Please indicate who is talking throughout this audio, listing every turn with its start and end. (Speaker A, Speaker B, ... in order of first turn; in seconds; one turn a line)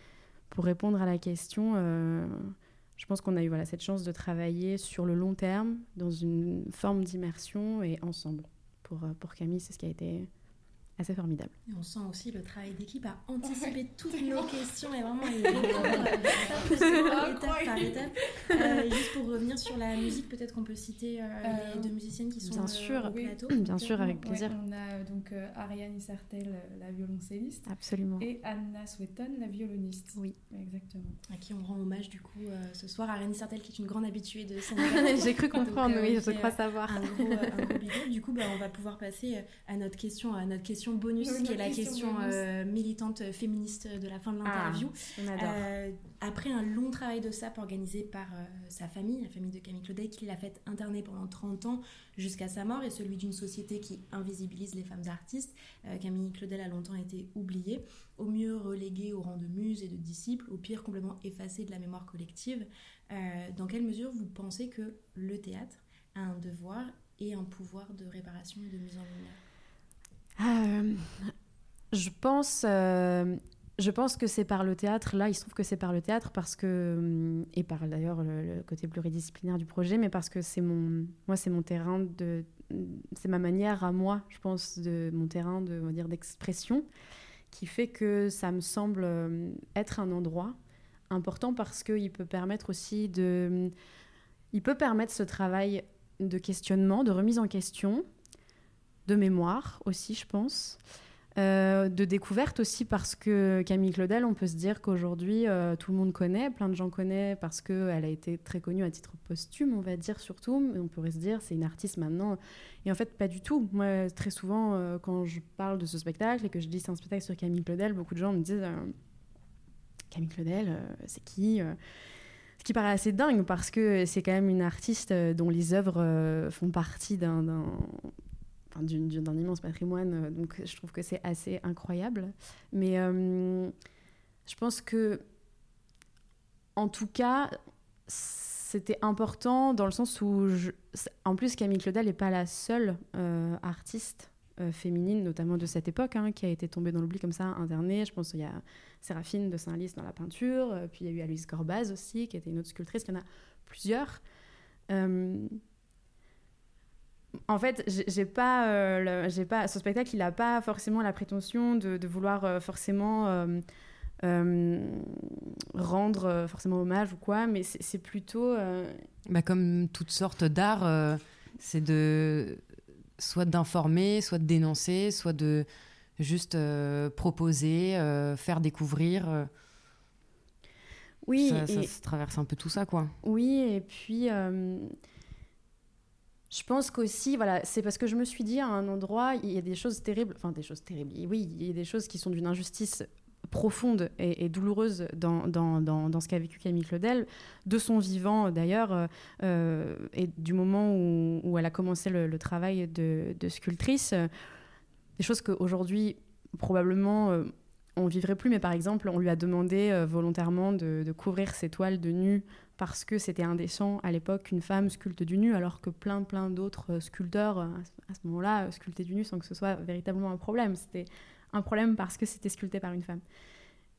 Speaker A: 0.5-10.3
Speaker A: 11.0-11.5
Speaker B: 11.7-23.7
Speaker C: 13.4-14.6
Speaker C: 15.2-19.2
Speaker C: 21.4-31.2
Speaker A: 22.5-24.5
Speaker A: 27.6-28.3
Speaker B: 31.3-69.4
Speaker A: 34.8-37.7
Speaker C: 34.9-35.7
Speaker C: 41.2-42.5
Speaker A: 44.4-45.6
Speaker A: 70.4-71.3
Speaker A: 71.9-86.9
Speaker A: 87.5-90.6
Speaker A: 91.1-93.7
Speaker A: 94.5-98.0
Speaker A: 99.0-100.8
Speaker A: 101.4-118.9
Speaker A: 120.1-121.8
Speaker A: 122.6-128.1
Speaker A: 128.7-133.7
Speaker A: 134.4-135.2
Speaker A: 136.8-137.5
Speaker A: 138.1-154.2
Speaker A: 154.9-155.6
Speaker A: 157.5-163.6
Speaker A: 164.2-169.0
Speaker D: 169.3-172.6
Speaker D: 173.2-175.7
Speaker D: 176.2-179.5
Speaker A: 181.2-181.9
Speaker D: 181.4-183.1
Speaker A: 183.2-184.9
Speaker A: 186.5-204.3
Speaker A: 205.2-223.2